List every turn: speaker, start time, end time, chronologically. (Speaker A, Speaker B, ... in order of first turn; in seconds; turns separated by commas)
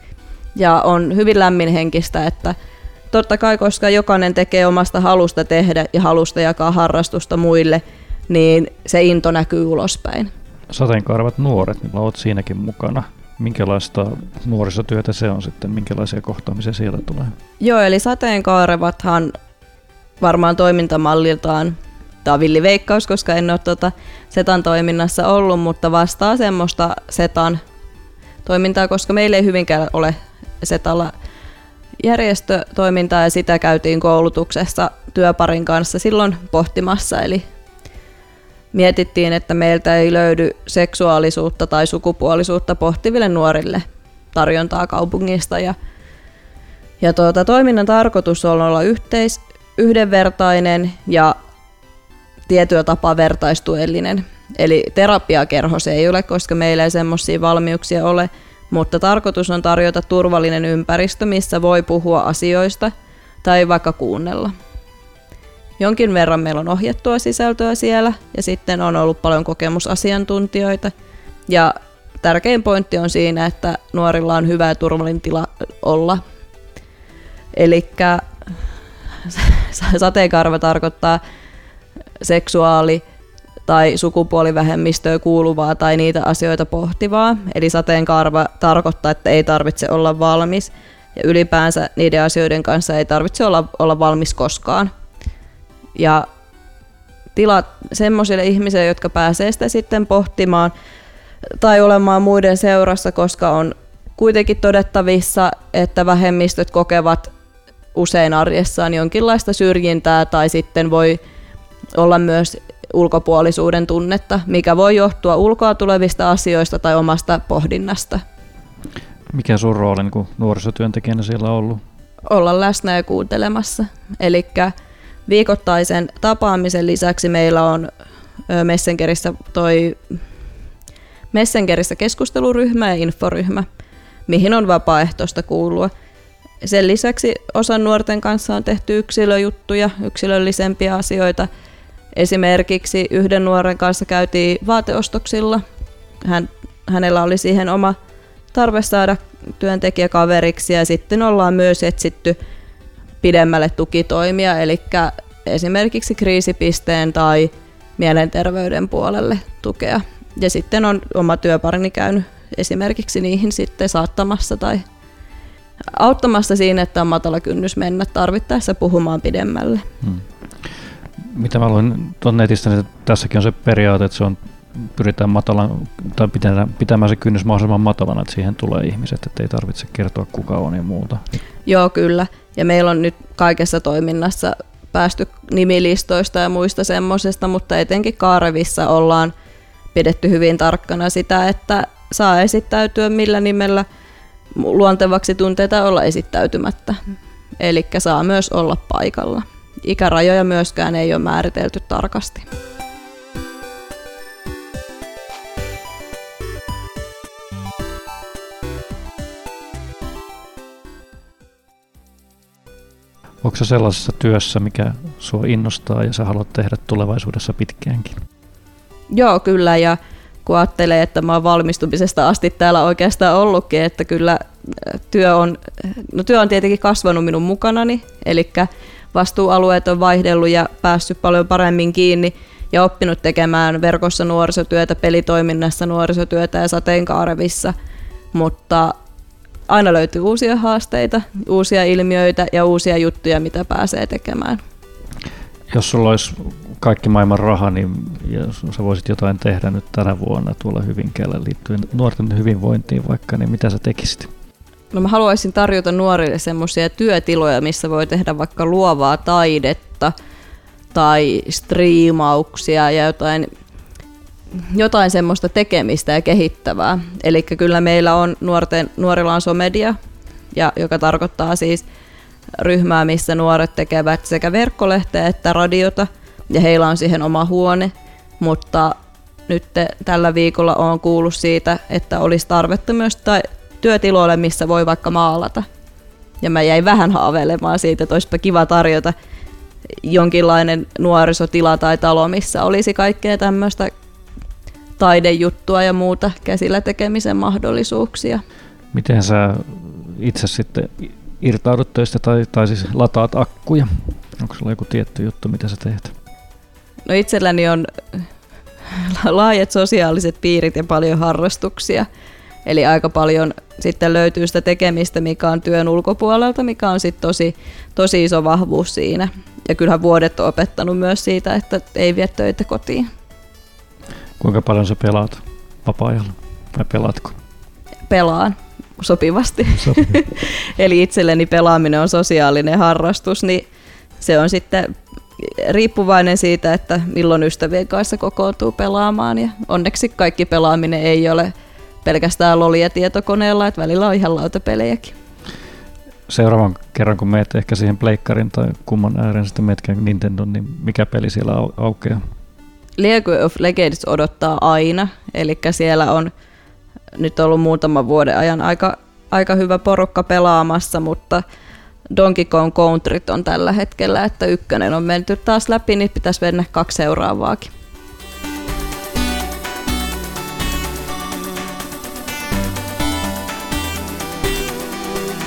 Speaker A: 0.6-2.5, Speaker A: 3.1-10.3, Speaker B: 10.7-17.3, Speaker A: 17.6-19.3, Speaker A: 20.2-27.6, Speaker A: 28.4-31.1, Speaker A: 32.0-37.5, Speaker A: 38.7-45.8, Speaker A: 47.0-51.3, Speaker A: 52.5-62.9, Speaker A: 63.4-64.5, Speaker A: 65.8-70.9, Speaker A: 71.5-76.2, Speaker A: 77.5-78.2, Speaker A: 79.2-81.2, Speaker A: 82.2-83.0, Speaker A: 83.7-94.9, Speaker A: 96.0-96.2, Speaker A: 97.3-100.7, Speaker A: 101.6-107.3, Speaker A: 108.0-111.2, Speaker A: 112.0-118.2, Speaker B: 119.3-121.8, Speaker A: 122.3-124.7, Speaker A: 125.3-127.9, Speaker A: 128.5-130.0, Speaker A: 131.3-133.7, Speaker A: 134.3-135.9, Speaker A: 136.6-141.5, Speaker A: 142.2-145.6, Speaker A: 146.2-148.0, Speaker A: 148.5-152.4, Speaker A: 153.2-164.8, Speaker A: 165.9-169.8, Speaker B: 170.0-181.2, Speaker A: 181.7-189.3, Speaker A: 189.9-193.8, Speaker A: 194.5-197.0, Speaker A: 197.6-202.5, Speaker B: 213.4-218.2, Speaker A: 219.1-237.7, Speaker A: 238.3-238.9, Speaker A: 239.7-244.6, Speaker B: 245.7-254.3, Speaker A: 254.9-260.1, Speaker A: 260.9-263.5, Speaker A: 264.7-270.0, Speaker A: 270.5-271.8, Speaker A: 272.6-278.9, Speaker A: 279.5-285.7, Speaker A: 286.4-289.1, Speaker A: 290.0-293.9, Speaker A: 295.0-298.4, Speaker B: 298.9-306.1, Speaker A: 307.1-308.2, Speaker A: 308.9-312.1, Speaker A: 312.7-323.1, Speaker B: 324.4-327.4, Speaker A: 328.1-333.7, Speaker B: 329.8-330.2, Speaker A: 334.2-341.5, Speaker A: 342.0-345.1, Speaker B: 346.3-352.2, Speaker A: 353.0-356.3, Speaker A: 357.2-361.4, Speaker A: 362.1-367.7